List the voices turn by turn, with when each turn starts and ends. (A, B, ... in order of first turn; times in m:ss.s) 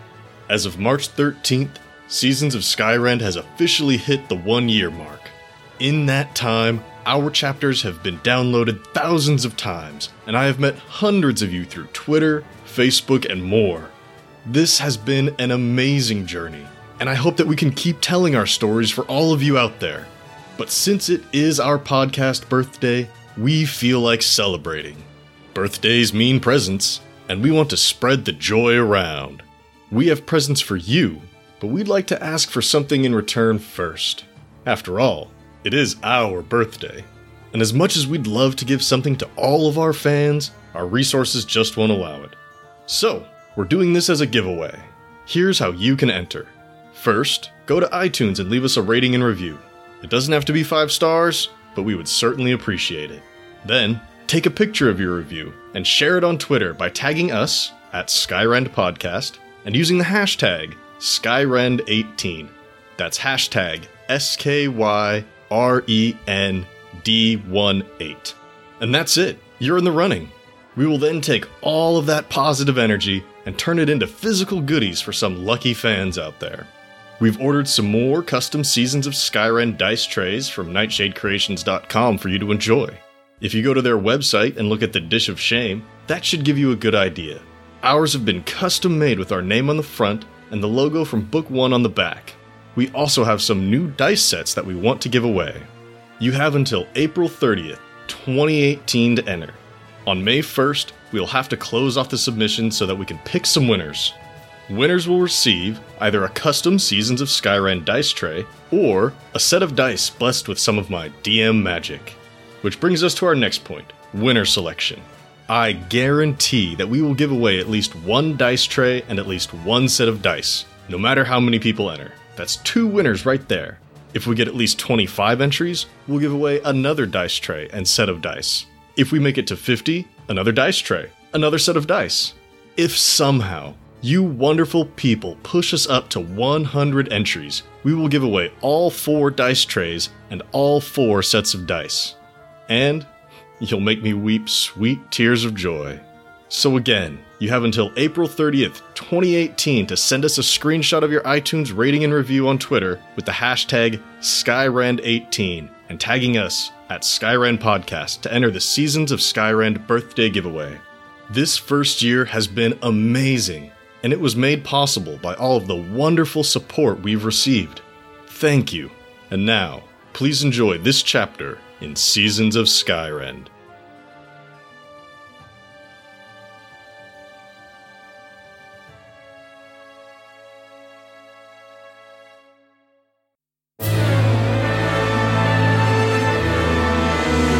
0:00.5-0:13.9 A
0:14.4-0:42.4 A
0:42.9-1:16.7 A
1:17.2-1:35.7 A
1:36.2-1:44.2 A
1:44.7-2:22.2 A
2:22.7-2:23.1 A
2:23.6-2:53.5 A